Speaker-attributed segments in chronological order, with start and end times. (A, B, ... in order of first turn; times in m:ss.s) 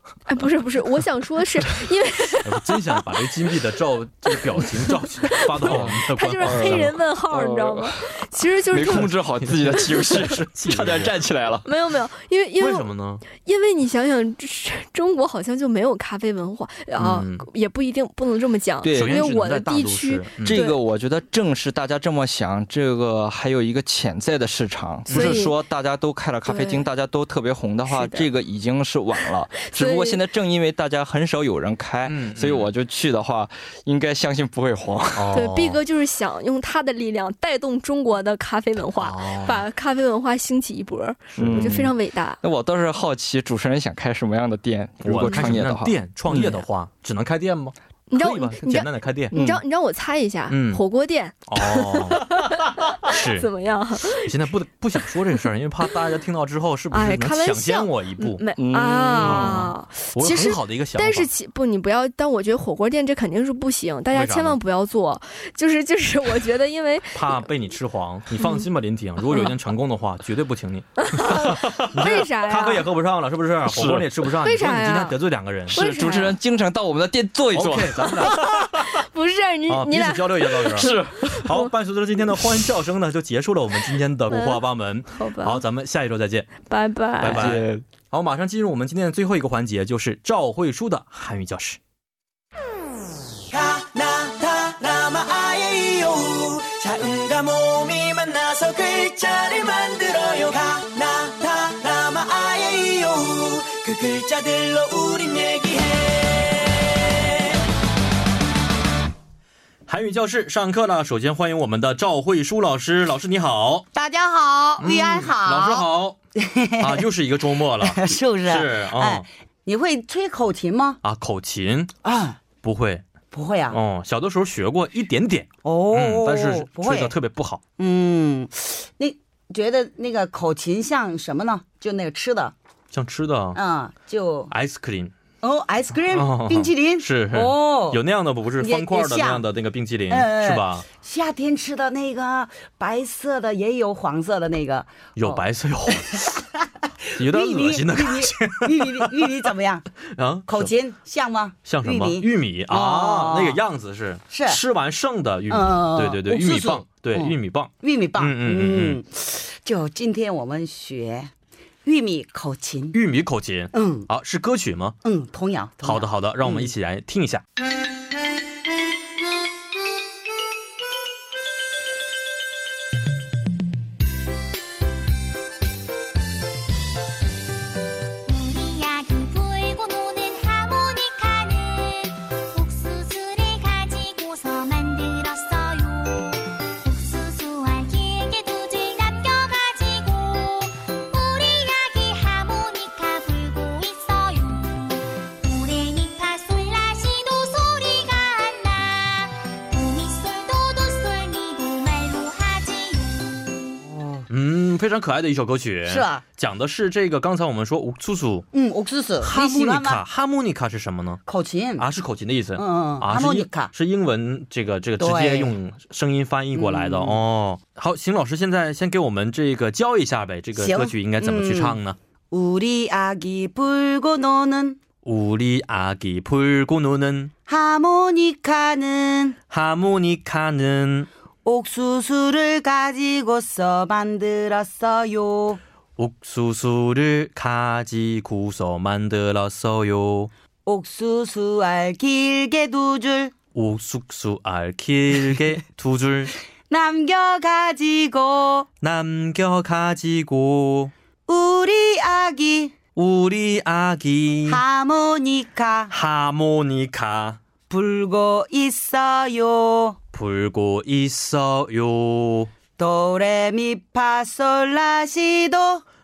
0:00.3-0:02.8 A
0:02.4-0:07.0 B
0:05.3-0:09.2 A
0:05.7-0:11.7 C
0:08.8-0:11.1 B
0:09.7-0:10.2 A
0:11.6-0:20.8 A
0:12.6-0:13.2 B
0:17.0-0:17.5 B
0:18.8-0:19.3 C
0:18.9-0:20.6 B
0:20.4-0:35.3 C
0:25.1-0:25.4 B
0:25.1-0:25.6 A
0:26.4-0:26.9 A
0:27.9-0:28.3 A
0:29.2-0:30.2 A
0:32.0-0:32.7 B
0:35.1-0:35.8 B
0:35.3-0:42.4 A
0:39.0-0:39.6 B
0:41.3-0:41.7 B
0:41.4-0:46.6 C
0:45.0-0:49.3 B
0:48.1-0:54.3 A
0:49.3-0:49.6 C
0:50.5-0:50.8 B
0:51.5-0:52.3 B
0:53.0-0:53.5 B
0:54.1-0:58.4 B
0:56.9-1:07.4 A
0:58.6-0:59.7 C
0:59.2-1:01.3 B
1:04.1-1:04.6 B
1:07.1-1:15.8 B
1:08.4-1:08.6 A
1:09.2-1:09.6 A
1:11.0-1:12.9 A
1:11.6-1:11.9 C
1:13.7-1:14.1 C
1:14.4-1:15.2 A
1:15.7-1:18.9 C
1:15.7-1:16.3 A
1:17.5-1:18.4 B
1:18.2-1:21.7 A
1:19.7-1:26.5 B
1:20.6-1:21.5 C
1:24.3-1:25.6 A
1:26.7-1:27.5 A
1:27.2-1:31.8 B
1:27.2-1:27.8 C
1:33.5-1:47.5 D
1:49.9-1:53.9 B
1:53.9-1:55.8 E
1:54.8-1:56.2 B
1:56.4-1:57.1 E
1:56.8-1:59.2 B
1:57.8-2:01.0 E
2:01.0-2:02.0 B
2:02.0-2:02.4 E
2:02.5-2:03.1 B
2:03.3-2:03.8 E
2:03.7-2:07.6 B
2:05.6-2:07.1 E
2:07.8-2:12.5 E
2:12.9-2:13.6 B
2:13.5-2:14.5 E
2:14.5-2:15.1 B
2:15.4-2:18.0 E
2:16.1-2:20.8 B
2:18.6-2:19.4 E
2:20.1-2:25.4 E
2:25.2-2:26.4 B
2:25.9-2:26.3 E
2:27.0-2:29.8 E
2:27.1-2:29.4 B
2:30.1-2:30.7 B
2:30.5-2:33.6 E
2:31.6-2:39.0 B
2:34.3-2:34.6 E
2:35.5-2:41.3 E
2:41.8-2:42.9 E
2:42.9-2:45.0 B
2:43.7-2:44.1 E
2:45.0-2:46.7 E
2:45.8-2:47.4 B
2:58.2-3:23.5 F
3:23.8-3:24.2 E
3:24.3-3:28.5 B
3:25.9-3:26.2 E
3:28.5-3:30.0 E
3:29.2-3:31.2 B
3:31.2-3:31.8 E
3:31.8-3:42.0 B
3:32.6-3:33.7 E
3:35.0-3:35.5 E
3:36.5-3:37.2 E
3:40.6-3:41.8 E
3:42.3-3:44.8 E
3:45.0-3:47.3 B
3:47.5-3:49.4 E
3:49.5-3:51.1 B
3:51.4-3:55.6 E
3:56.0-4:00.3 B
4:00.6-4:03.3 E
4:03.5-4:06.3 B
4:06.7-4:08.7 E
4:08.8-4:10.9 B
4:11.3-4:12.8 E
4:13.0-4:14.6 B
4:14.4-4:15.9 E
4:15.9-4:17.4 B
4:17.7-4:20.0 E
4:20.1-4:22.5 B
4:22.8-4:25.8 E